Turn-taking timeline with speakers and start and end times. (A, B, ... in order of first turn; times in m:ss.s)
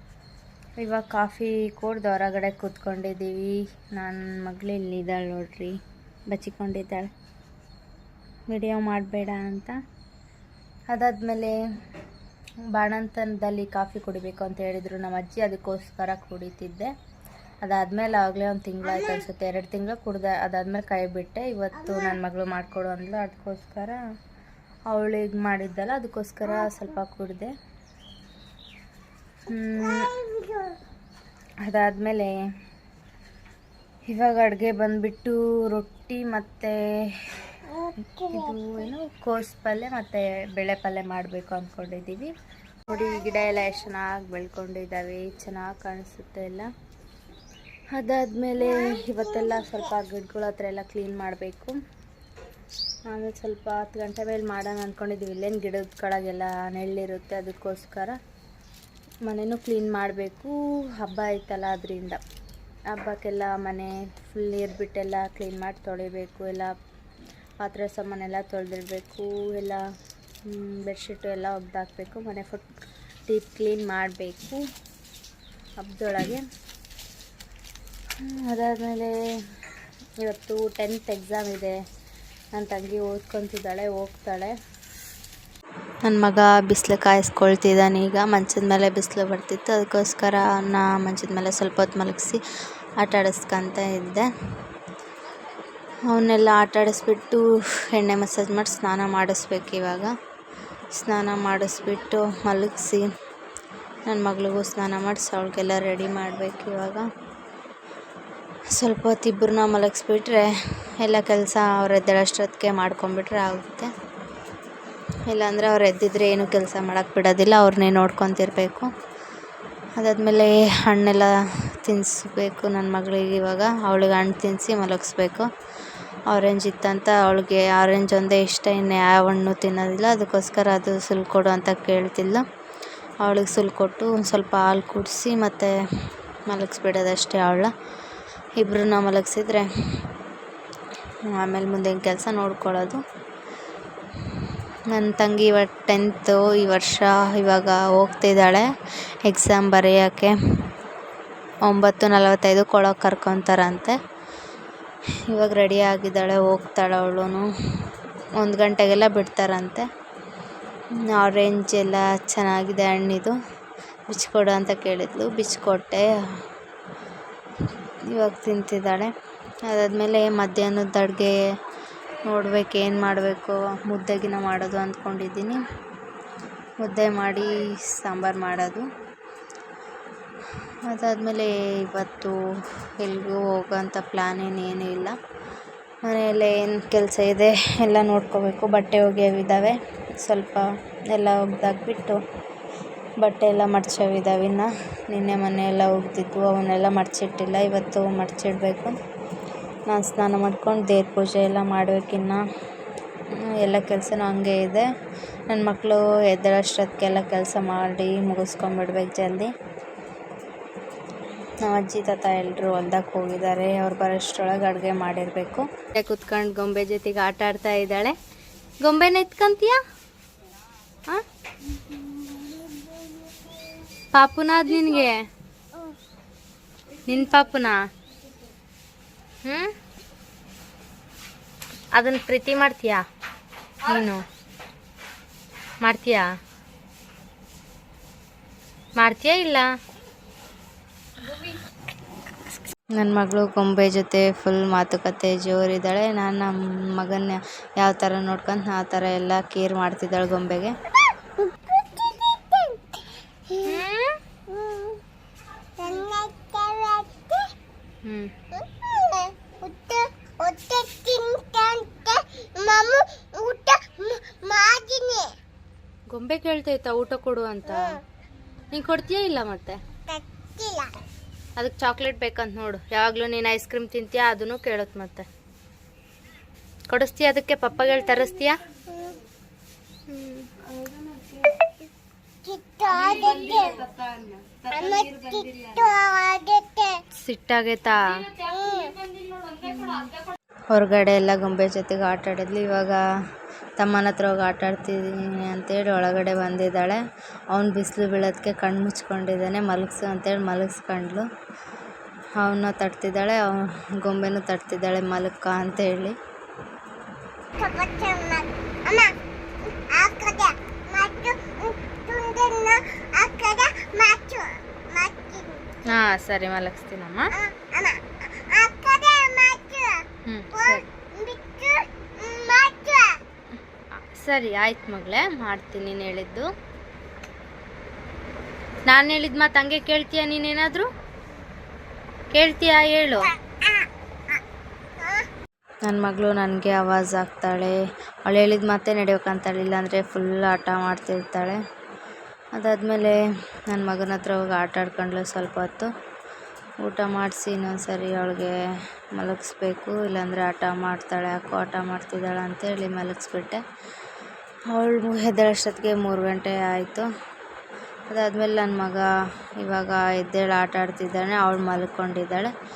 0:00.8-0:05.8 A
0:06.3-0:07.1 A
0:08.5-0:09.8 A
0:10.9-0:11.6 A
0:12.7-0:16.9 A
0:17.6-0:24.0 A
0:24.9-0:27.5 A
0:29.5-0:30.2 A
0:29.8-0:30.8 B
0:31.6-0:32.3 A
0:34.1-0:37.3 A
0:37.7-0:38.6 B
0:38.2-0:42.3 A
0:42.9-0:46.7 A
0:47.9-0:51.8 A
0:53.1-0:58.2 A
0:59.2-1:02.2 A
1:02.9-1:06.7 A
1:07.6-1:09.8 A
1:10.5-1:12.7 A
1:13.3-1:14.6 A
1:15.8-1:16.5 A
1:18.2-1:19.2 A
1:20.2-1:21.8 A
1:22.6-1:24.6 A
1:26.0-1:32.4 A
1:33.0-1:34.3 A
1:36.0-1:40.2 A
1:41.0-1:43.1 A
1:44.1-1:47.1 A
1:48.7-1:53.9 A
1:55.3-1:58.9 A
2:00.0-2:05.5 A
2:06.3-2:12.4 A
2:13.2-2:15.8 A
2:16.5-2:17.7 A
2:18.6-2:19.7 A
2:21.3-2:23.0 A
2:24.9-2:28.7 A
2:29.3-2:30.3 A
2:31.7-2:34.0 A
2:35.3-2:37.5 A
2:38.4-2:39.8 A
2:41.0-2:43.4 A
2:44.1-2:46.1 A
2:48.0-2:49.1 A
2:49.7-2:51.4 A
2:52.3-2:55.6 A
2:56.8-2:58.9 A
3:00.9-3:02.4 A
3:03.0-3:05.2 A
3:06.0-3:12.2 A
3:13.2-3:19.0 A
3:19.9-3:22.4 A
3:23.6-3:24.9 A
3:25.5-3:29.5 A
3:31.6-3:38.2 A
3:38.8-3:39.8 A
3:44.1-3:45.2 A
3:47.1-3:47.8 A
3:49.4-3:49.7 A
3:52.0-3:53.0 A
3:53.8-3:54.2 A
3:55.8-3:56.3 A
3:59.0-3:59.7 A
4:03.0-4:10.7 A
4:11.2-4:13.8 B
4:13.6-4:14.2 A
4:14.5-4:15.0 B
4:15.8-4:17.5 B
4:18.0-4:18.3 A
4:18.5-4:25.4 B
4:26.1-4:28.0 A
4:28.7-4:29.8 A
4:30.1-4:31.0 B
4:31.6-4:35.3 A
4:36.9-4:38.6 A
4:38.9-4:39.2 B
4:40.1-4:40.9 A
4:42.4-4:43.8 B
4:43.0-4:44.0 A
4:44.7-4:47.0 B
4:47.1-4:48.4 A
4:48.4-4:49.1 B
4:49.7-4:50.1 A
4:50.7-4:53.0 A
4:53.8-5:01.3 A
5:02.4-5:06.2 A
5:07.6-5:15.7 B
5:15.8-5:17.3 A
5:17.4-5:23.2 B
5:20.3-5:20.9 A
5:24.0-5:26.5 A
5:28.9-5:30.9 A
5:32.3-5:33.4 A
5:33.5-5:33.9 B
5:35.0-5:35.3 B
5:35.8-5:41.6 A
5:42.6-5:45.9 A
5:46.8-5:48.6 A
5:49.2-5:53.6 A
5:54.7-5:57.1 A
5:58.1-5:59.1 A
5:59.6-6:02.5 A